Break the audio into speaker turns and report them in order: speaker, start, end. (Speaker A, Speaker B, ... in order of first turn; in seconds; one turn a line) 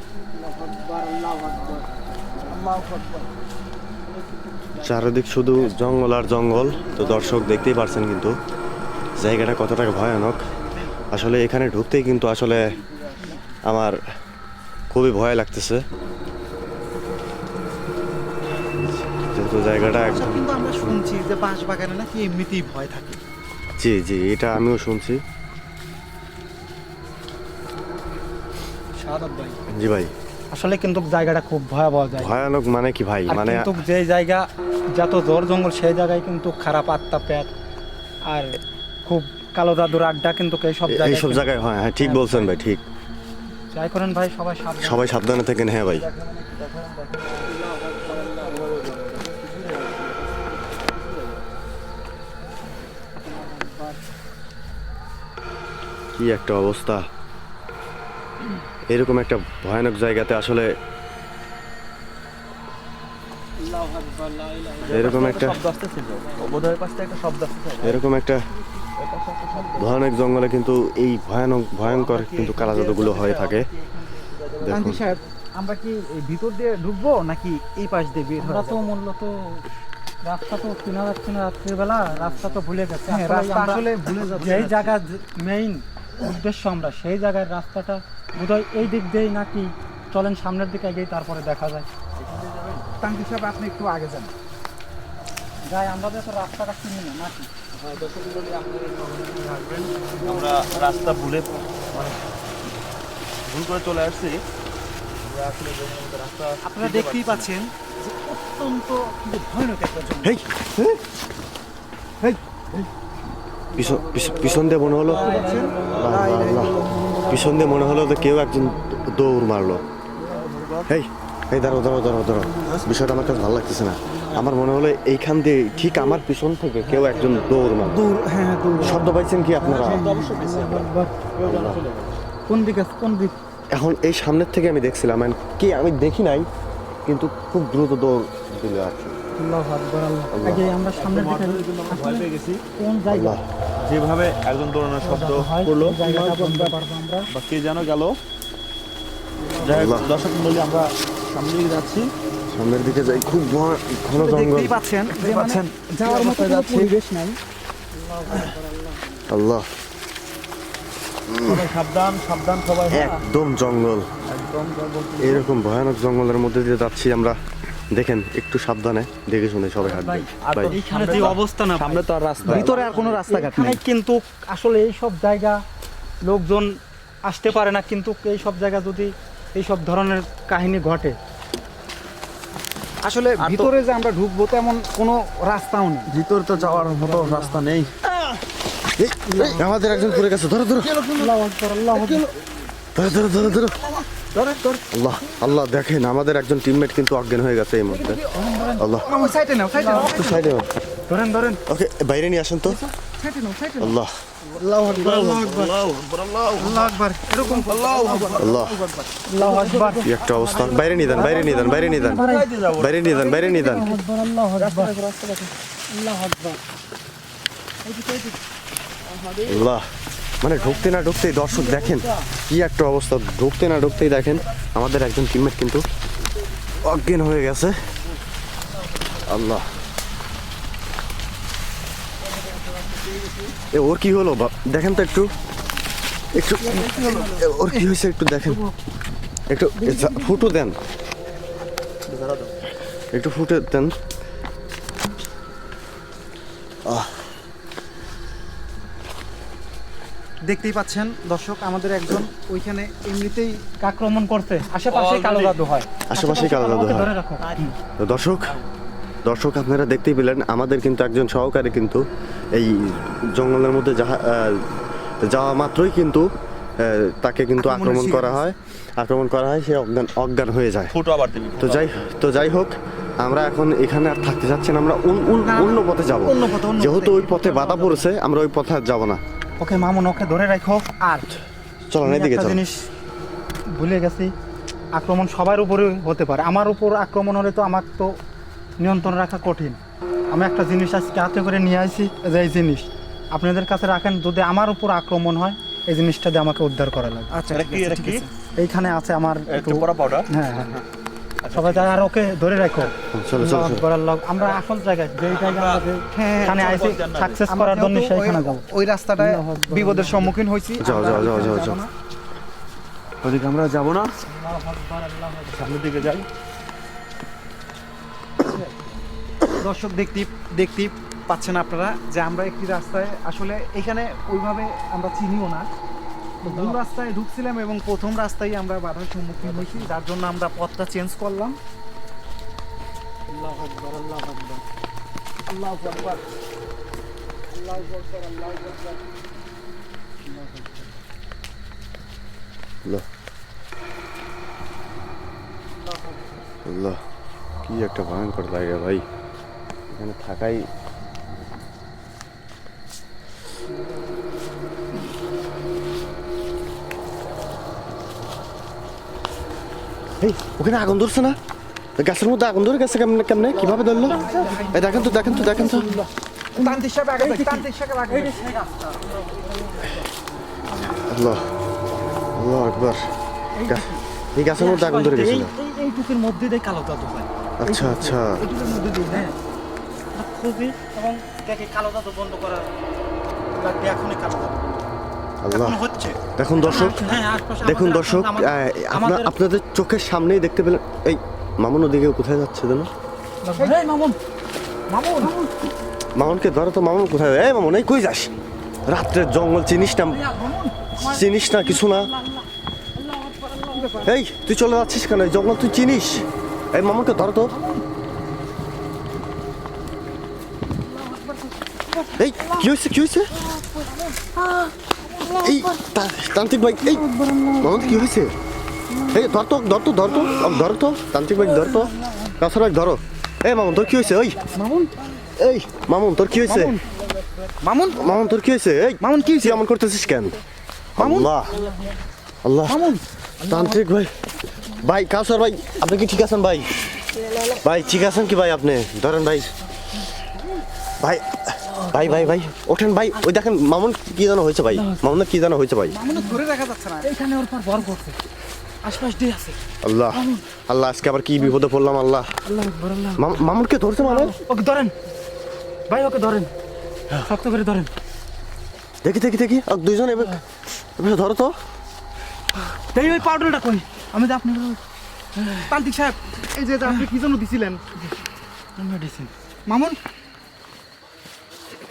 Speaker A: 0.3-2.9
Speaker B: 1.6-1.9
Speaker B: 2.4-3.3
Speaker B: 4.7-5.0
Speaker C: 4.8-8.4
Speaker B: 5.5-8.0
Speaker C: 9.2-10.4
Speaker B: 10.6-11.3
Speaker C: 11.1-12.6
Speaker B: 12.9-13.4
Speaker C: 13.7-14.0
Speaker C: 14.9-15.8
Speaker C: 19.1-20.4
Speaker D: 19.6-23.2
Speaker C: 23.8-25.2
Speaker A: 29.0-29.6
Speaker C: 29.7-30.1
Speaker A: 30.5-32.3
Speaker C: 32.1-33.7
Speaker A: 33.3-37.5
Speaker A: 38.3-41.5
Speaker C: 40.9-42.8
Speaker A: 42.0-42.6
Speaker A: 43.7-45.1
Speaker C: 44.8-46.1
Speaker B: 45.8-51.5
Speaker A: 47.5-48.6
Speaker A: 53.2-54.0
Speaker C: 56.1-57.0
Speaker C: 58.9-60.7
Speaker A: 63.6-66.8
Speaker B: 64.8-68.0
Speaker C: 64.9-65.6
Speaker C: 67.8-68.4
Speaker B: 69.0-70.0
Speaker C: 69.8-73.7
Speaker B: 71.8-75.3
Speaker C: 74.6-75.0
Speaker D: 74.7-78.8
Speaker A: 78.4-79.6
Speaker A: 80.2-91.9
Speaker B: 82.1-82.6
Speaker D: 83.1-85.0
Speaker B: 92.2-92.9
Speaker D: 93.0-94.3
Speaker A: 95.7-97.5
Speaker B: 97.7-102.2
Speaker B: 103.5-104.4
Speaker B: 105.2-107.5
Speaker D: 106.6-110.4
Speaker C: 110.2-111.0
Speaker C: 113.8-115.3
Speaker B: 113.8-117.8
Speaker D: 115.1-116.0
Speaker A: 115.1-116.5
Speaker C: 116.0-116.8
Speaker C: 117.3-119.8
Speaker B: 120.2-120.9
Speaker A: 120.2-120.5
Speaker C: 120.9-128.0
Speaker B: 122.6-123.0
Speaker B: 125.8-126.1
Speaker B: 126.8-127.9
Speaker A: 127.8-131.1
Speaker D: 128.7-129.0
Speaker C: 128.8-130.1
Speaker B: 129.6-132.2
Speaker C: 131.4-131.8
Speaker A: 132.5-133.3
Speaker C: 133.7-136.5
Speaker C: 137.1-139.2
Speaker A: 139.4-142.2
Speaker C: 140.3-140.7
Speaker B: 140.9-142.6
Speaker A: 142.8-143.4
Speaker C: 143.1-143.4
Speaker B: 143.8-146.0
Speaker A: 145.0-147.3
Speaker D: 146.0-146.8
Speaker B: 147.3-148.2
Speaker A: 149.4-150.2
Speaker B: 149.6-152.1
Speaker C: 149.7-150.1
Speaker C: 152.5-154.8
Speaker D: 154.1-157.4
Speaker B: 155.1-156.9
Speaker A: 157.9-159.2
Speaker C: 159.3-159.7
Speaker C: 161.3-161.7
Speaker B: 161.4-163.2
Speaker C: 162.9-164.1
Speaker B: 164.2-165.5
Speaker C: 165.2-167.4
Speaker C: 167.9-171.3
Speaker A: 169.8-175.6
Speaker B: 170.4-173.2
Speaker D: 172.4-173.8
Speaker A: 176.2-176.8
Speaker A: 177.3-181.2
Speaker D: 183.0-186.2
Speaker B: 183.4-183.7
Speaker B: 186.1-187.9
Speaker A: 186.6-187.7
Speaker C: 188.9-191.0
Speaker A: 189.3-189.7
Speaker B: 190.8-191.3
Speaker A: 191.2-192.2
Speaker D: 191.9-192.2
Speaker B: 191.9-192.2
Speaker C: 192.9-193.8
Speaker B: 194.4-194.6
Speaker C: 194.9-198.2
Speaker D: 198.0-200.5
Speaker A: 198.3-200.2
Speaker C: 198.8-199.1
Speaker C: 199.9-200.7
Speaker A: 201.1-201.6
Speaker C: 201.7-202.8
Speaker D: 203.2-203.9
Speaker C: 203.8-204.1
Speaker B: 204.5-206.9
Speaker D: 204.6-205.8
Speaker A: 205.0-205.4
Speaker D: 206.6-208.6
Speaker A: 207.3-207.7
Speaker B: 207.6-214.0
Speaker C: 208.4-208.8
Speaker A: 209.3-212.5
Speaker C: 210.0-212.2
Speaker C: 212.8-213.9
Speaker A: 213.3-214.9
Speaker B: 214.6-215.5
Speaker A: 215.9-216.6
Speaker A: 217.9-218.3
Speaker B: 219.0-219.7
Speaker C: 219.4-219.9
Speaker C: 220.4-225.8
Speaker A: 221.5-222.0
Speaker C: 226.8-227.8
Speaker C: 229.2-229.7
Speaker C: 233.7-235.3
Speaker C: 236.3-238.6
Speaker B: 236.7-237.3
Speaker D: 236.8-237.9
Speaker C: 239.5-240.8
Speaker B: 242.1-242.5
Speaker C: 243.1-243.9
Speaker C: 246.9-247.3
Speaker D: 250.5-253.6
Speaker A: 253.8-257.8
Speaker B: 254.9-255.6
Speaker C: 256.1-257.1
Speaker C: 258.0-258.6
Speaker C: 259.2-264.7
Speaker C: 265.2-266.3
Speaker C: 266.8-270.9
Speaker D: 267.6-268.4
Speaker B: 270.9-272.0
Speaker C: 271.6-279.2
Speaker D: 275.4-278.1
Speaker A: 279.6-281.3
Speaker C: 281.9-282.6
Speaker A: 282.0-282.9
Speaker A: 283.7-284.3
Speaker A: 284.9-288.1
Speaker A: 288.8-289.8
Speaker A: 290.3-297.3
Speaker D: 297.3-298.3
Speaker B: 297.5-298.2
Speaker A: 298.6-300.8
Speaker B: 299.5-300.8
Speaker B: 301.4-302.1
Speaker A: 301.5-308.6
Speaker C: 303.1-303.8
Speaker B: 305.2-305.9
Speaker D: 306.1-306.9
Speaker B: 306.4-307.4
Speaker D: 307.5-311.9
Speaker A: 309.2-310.4
Speaker C: 310.8-311.8
Speaker B: 313.2-314.2
Speaker A: 314.2-315.8
Speaker B: 315.5-316.3
Speaker A: 318.4-318.9
Speaker D: 319.6-325.7
Speaker A: 326.4-326.9
Speaker D: 326.4-331.6
Speaker A: 329.4-329.9
Speaker A: 333.3-334.6
Speaker A: 335.5-336.2
Speaker A: 337.6-338.9
Speaker A: 340.2-340.9
Speaker A: 345.8-346.3
Speaker C: 346.7-347.0
Speaker C: 347.6-349.1
Speaker C: 349.9-350.7
Speaker C: 360.2-361.4
Speaker C: 362.0-365.9
Speaker A: 363.6-370.1
Speaker D: 363.8-366.0
Speaker D: 366.6-368.4
Speaker C: 371.1-371.4
Speaker C: 372.4-373.0
Speaker A: 373.6-374.0
Speaker C: 373.6-375.5
Speaker A: 374.6-377.3
Speaker C: 377.6-378.4
Speaker D: 377.7-379.3
Speaker A: 378.4-379.3
Speaker A: 380.1-382.7
Speaker A: 383.6-384.9
Speaker C: 385.4-385.8
Speaker D: 385.5-386.1
Speaker C: 386.3-387.1
Speaker A: 386.6-389.3
Speaker C: 387.6-392.9
Speaker A: 393.4-394.2
Speaker D: 393.6-393.9
Speaker D: 394.9-395.5
Speaker A: 395.1-395.3
Speaker C: 396.1-398.3
Speaker C: 398.9-400.2
Speaker D: 400.1-400.7
Speaker A: 400.9-402.4
Speaker C: 401.0-402.1
Speaker A: 402.9-404.1
Speaker D: 403.7-404.1
Speaker C: 404.0-407.5
Speaker A: 410.8-412.5
Speaker C: 412.2-413.3
Speaker A: 413.4-415.6
Speaker C: 415.4-417.0
Speaker A: 416.9-417.9
Speaker D: 417.0-417.7
Speaker C: 417.6-418.3
Speaker C: 419.1-424.4
Speaker A: 421.5-422.3
Speaker D: 424.5-424.9
Speaker C: 425.4-426.8
Speaker D: 426.4-426.8
Speaker D: 427.6-428.1
Speaker C: 427.9-430.4
Speaker D: 429.0-429.6
Speaker C: 431.0-431.6
Speaker D: 431.0-431.3
Speaker C: 432.4-432.9
Speaker D: 432.7-433.0
Speaker C: 433.4-434.1
Speaker C: 434.7-436.8
Speaker C: 437.6-439.5
Speaker C: 441.0-445.9
Speaker A: 441.7-442.3
Speaker A: 444.7-445.0
Speaker D: 445.9-447.1
Speaker A: 446.0-446.4
Speaker A: 447.0-448.2
Speaker A: 448.8-449.6
Speaker C: 449.8-452.3
Speaker A: 450.1-450.4
Speaker A: 452.4-453.4
Speaker C: 453.2-454.3
Speaker A: 454.0-454.9
Speaker A: 455.9-456.5
Speaker A: 457.2-457.9
Speaker C: 459.0-460.4
Speaker C: 461.0-461.5
Speaker A: 462.9-464.8
Speaker A: 465.4-465.8
Speaker D: 465.7-467.8
Speaker A: 468.8-469.3
Speaker D: 469.7-470.0